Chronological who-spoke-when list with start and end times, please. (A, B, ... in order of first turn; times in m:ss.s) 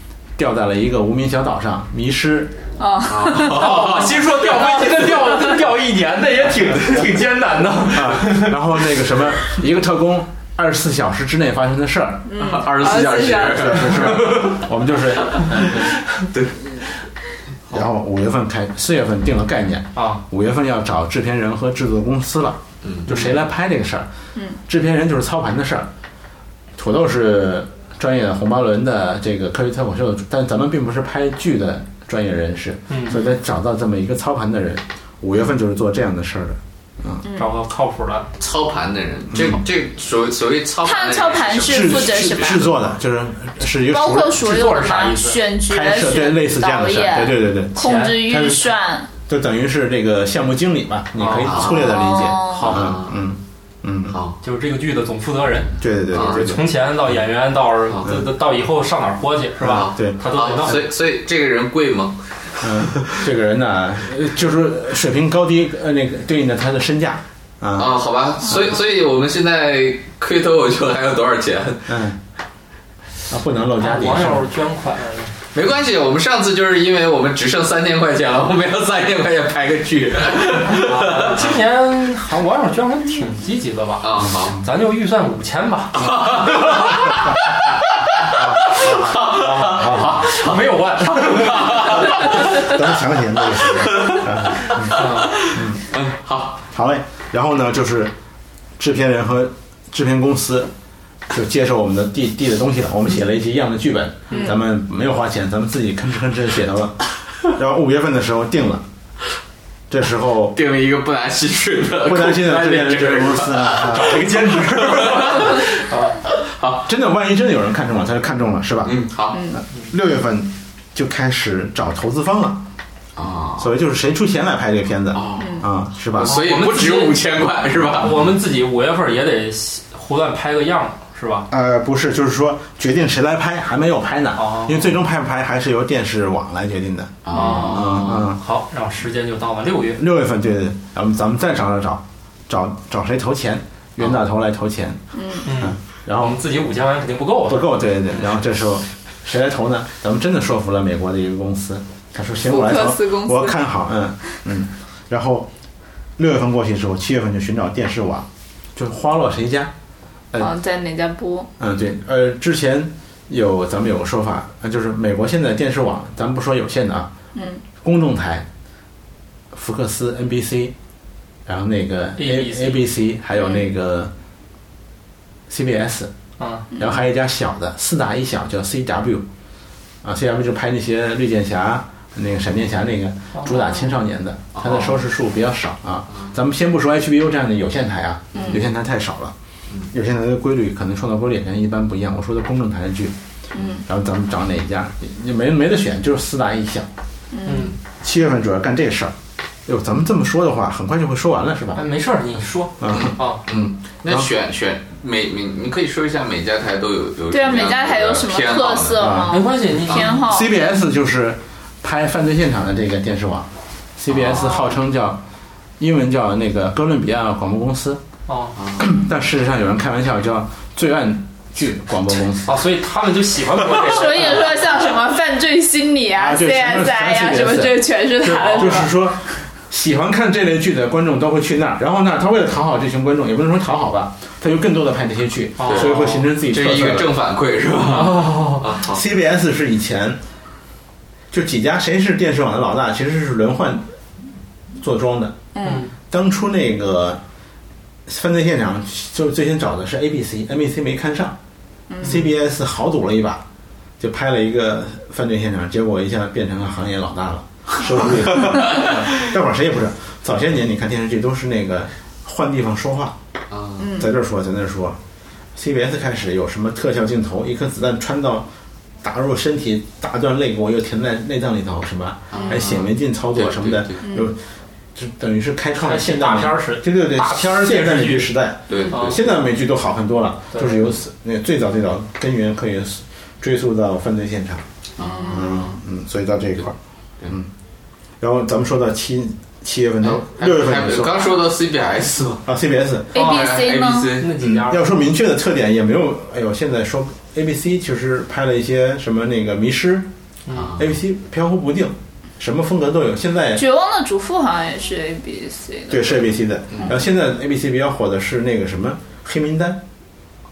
0:00.4-0:02.6 A
0:02.8-0:05.4 B
0:03.1-0:04.8 C
0:03.5-0:08.6 D
0:07.9-0:12.3 A
0:12.3-0:14.1 B
0:12.4-0:14.5 C
0:13.5-0:15.9 A
0:14.2-0:14.6 D
0:15.3-0:15.8 C
0:16.3-0:16.8 C
0:17.7-0:25.9 A
0:19.9-0:20.2 D
0:22.8-0:23.1 C
0:26.8-0:37.2 A
0:32.9-0:33.2 D
0:37.2-0:37.5 B
0:37.4-0:38.3 D
0:38.4-0:42.7 C
0:39.3-0:39.6 A
0:40.8-0:42.7 B
0:41.7-0:44.6 A
0:43.8-0:49.1 B
0:44.4-0:45.5 D
0:45.6-0:54.2 A
0:47.8-0:48.3 D
0:51.2-0:51.5 D
0:51.4-0:53.2 C
0:51.6-0:52.9 B
0:54.1-0:54.4 C
0:54.4-1:00.8 D
0:55.8-0:56.7 A
0:56.1-0:56.4 C
0:59.6-1:00.8 A
0:59.6-1:03.2 C
1:02.6-1:07.9 A
1:07.8-1:11.9 C
1:08.5-1:08.8 A
1:11.9-1:12.2 A
1:13.3-1:14.5 A
1:13.8-1:15.3 D
1:15.5-1:21.5 C
1:20.6-1:26.1 D
1:24.0-1:24.6 C
1:25.9-1:27.4 C
1:28.4-1:30.2 A
1:28.7-1:30.6 C
1:29.4-1:32.5 D
1:31.2-1:32.8 C
1:31.9-1:35.9 A
1:33.5-1:36.6 C
1:34.8-1:35.3 D
1:36.7-1:38.1 A
1:38.8-1:40.7 A
1:41.3-1:48.8 A
1:49.9-1:50.6 A
1:50.5-1:56.9 C
1:52.0-1:55.5 A
1:54.4-1:56.2 D
1:56.8-2:02.6 A
1:58.8-1:59.5 C
1:59.3-1:59.6 B
2:03.2-2:03.7 C
2:03.6-2:06.4 A
2:05.1-2:08.2 C
2:05.4-2:05.7 B
2:06.2-2:07.2 D
2:07.9-2:11.5 D
2:11.5-2:18.4 A
2:14.4-2:14.9 D
2:17.2-2:18.3 C
2:17.3-2:20.0 D
2:17.4-2:17.6 B
2:19.9-2:26.4 A
2:25.2-2:25.5 B
2:25.4-2:27.7 D
2:27.4-2:35.5 A
2:32.4-2:33.6 B
2:36.2-2:39.7 A
2:40.4-2:41.5 B
2:41.6-2:47.1 A
2:47.4-2:47.6 B
2:47.8-2:48.4 A
2:49.5-2:50.7 A
2:51.4-2:54.1 A
2:52.2-2:52.8 D
2:55.5-2:56.1 A
2:56.4-2:56.7 D
2:56.8-2:59.2 A
3:00.0-3:09.4 A
3:04.6-3:04.9 C
3:08.3-3:08.6 C
3:09.9-3:13.1 A
3:13.5-3:13.8 B
3:13.7-3:16.9 A
3:17.3-3:17.7 B
3:17.4-3:17.8 D
3:18.0-3:19.1 A
3:19.7-3:21.8 A
3:21.8-3:23.4 D
3:22.8-3:24.3 A
3:22.9-3:29.2 C
3:27.3-3:30.6 B
3:29.0-3:29.4 A
3:29.3-3:30.2 D
3:29.8-3:30.1 C
3:30.1-3:35.2 A
3:34.1-3:34.6 C
3:35.8-3:38.0 A
3:38.3-3:38.6 D
3:38.6-3:38.8 C
3:38.8-3:42.6 A
3:42.4-3:44.6 D
3:43.7-3:48.9 B
3:46.1-3:57.1 A
3:48.2-3:48.9 D
3:55.6-3:56.2 D
3:55.6-3:59.0 C
3:57.9-3:58.7 D
3:58.8-4:00.2 A
4:01.3-4:03.9 A
4:04.8-4:05.4 A
4:05.5-4:05.9 B
4:05.6-4:05.9 D
4:06.1-4:07.2 A
4:08.1-4:11.4 A
4:11.9-4:12.2 B
4:12.0-4:13.4 A
4:14.0-4:23.2 A
4:18.5-4:19.0 C
4:23.5-4:24.0 C
4:23.8-4:24.1 B
4:23.9-4:25.0 A
4:25.5-4:28.5 A
4:29.0-4:34.4 A
4:32.3-4:34.0 C
4:32.3-4:32.6 B
4:34.0-4:34.3 B
4:35.0-4:44.6 A
4:35.8-4:38.3 D
4:38.7-4:39.0 C
4:38.9-4:39.2 D
4:40.5-4:40.9 D
4:45.0-4:45.5 C
4:45.0-4:45.7 B
4:45.3-4:46.8 A
4:48.2-4:51.3 A
4:50.0-4:52.4 C
4:52.4-4:53.2 A
4:53.1-4:54.2 B
4:53.1-4:54.4 C
4:53.2-4:53.5 D
4:54.1-4:54.9 D
4:54.3-5:00.1 A
5:00.5-5:00.7 D
5:00.5-5:00.8 C
5:00.8-5:03.6 A
5:03.5-5:06.2 B
5:05.9-5:09.8 A